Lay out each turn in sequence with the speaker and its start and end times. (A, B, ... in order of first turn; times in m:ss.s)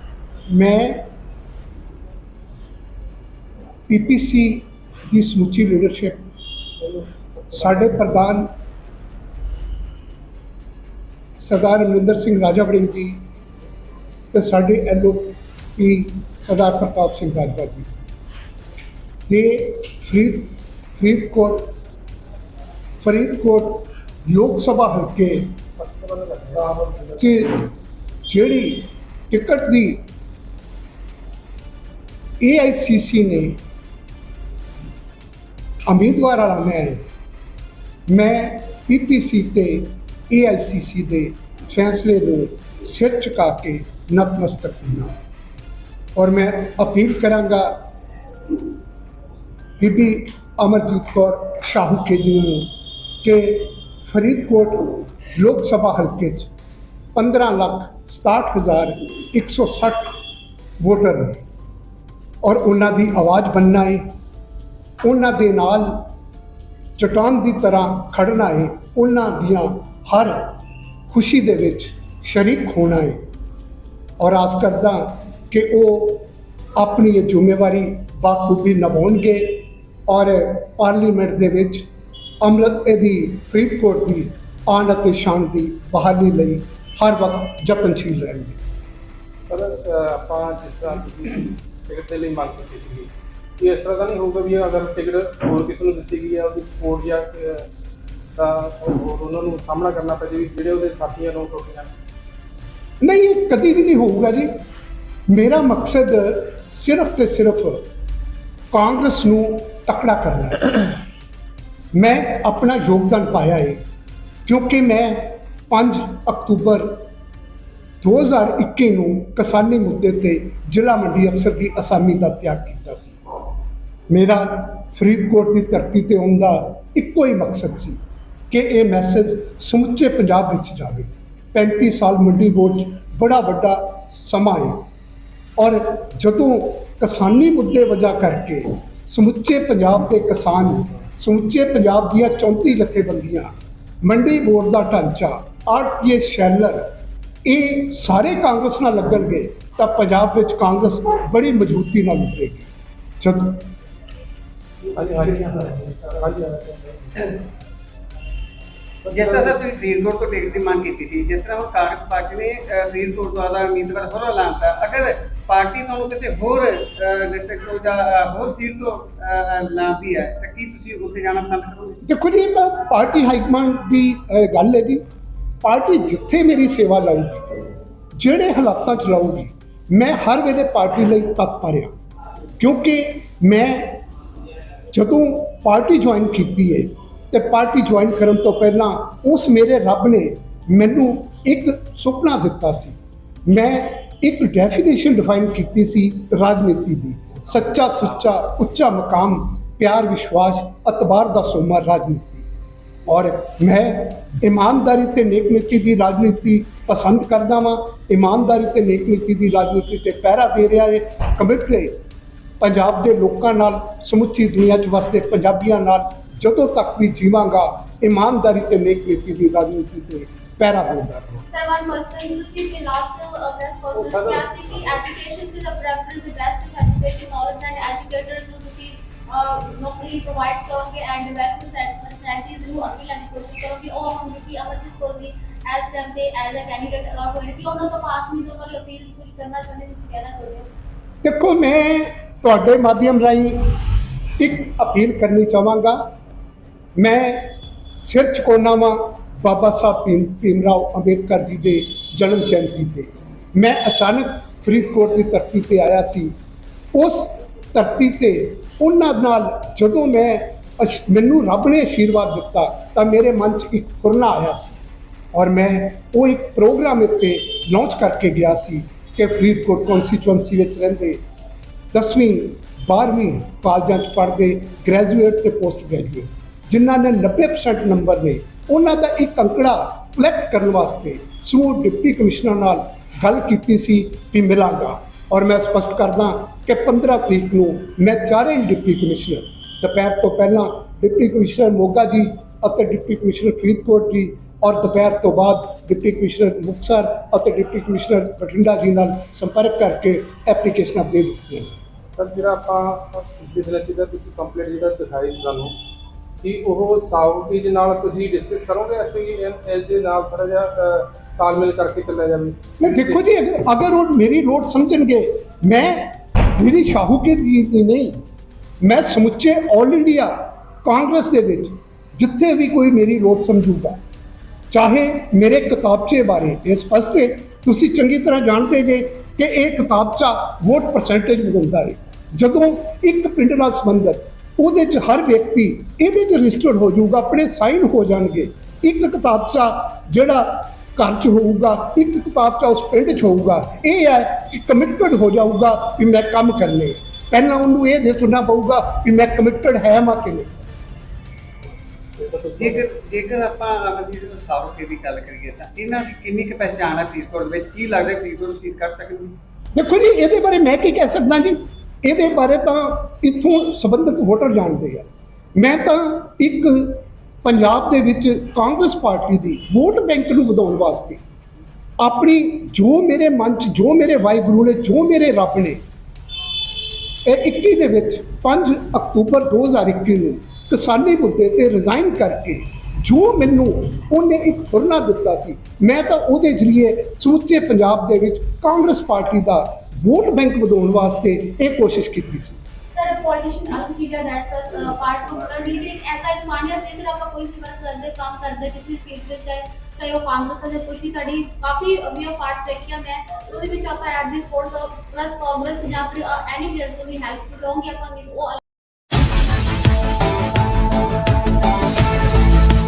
0:00.5-0:01.1 A
0:03.9-0:06.3 A
0:07.5-0:08.5 A
0:11.4-0:13.2 A
0:14.3-0:17.9 A
0:19.3-0:21.7 A
0:23.0-0:25.6 A
0:25.8-0:27.2 B
0:27.2-0:27.7 A
0:28.3-0:30.1 A
0:32.4-0:33.6 A
0:35.9-0:37.0 A
0:38.1-0:45.2 A
0:46.2-0:47.8 A
0:49.8-0:52.7 A
0:53.2-0:56.5 A
0:57.2-1:00.2 A
1:00.8-1:01.4 A
1:02.4-1:04.1 A
1:05.0-1:06.1 A
1:07.0-1:10.6 A
1:11.1-1:13.2 A
1:14.2-1:21.9 A
1:22.4-1:28.6 A
1:29.5-1:37.7 B
1:38.4-1:41.9 B
1:43.0-1:44.5 A
1:45.3-1:47.8 A
1:48.7-1:51.0 A
1:51.9-1:53.8 A
1:54.5-1:57.1 A
1:58.0-2:03.2 A
2:04.1-2:08.0 A
2:08.5-2:14.9 A
2:15.6-2:26.9 A
2:27.4-2:33.7 A
2:34.9-2:37.4 B
2:39.0-2:39.6 B
2:39.1-2:52.0 C
2:52.0-2:55.0 A
2:55.6-3:01.9 A
3:02.6-3:04.0 A
3:04.9-3:22.5 A
3:23.1-3:32.0 A
3:32.6-3:41.5 A
3:41.5-4:00.7 D
3:44.0-3:44.5 B
4:01.2-4:03.8 A
4:04.4-4:06.1 A
4:07.0-4:16.4 A
4:16.9-4:24.8 A
4:25.3-4:31.2 A
4:31.9-5:01.8 A
5:02.2-5:05.8 B
5:06.4-5:13.2 B
5:12.8-5:18.2 A
5:18.8-5:24.0 A
5:24.7-5:50.6 A
5:52.2-5:52.8 B
5:52.6-5:59.4 C
5:59.7-6:11.2 A
6:12.0-6:15.8 A
6:17.2-6:32.6 A
6:33.0-6:48.6 D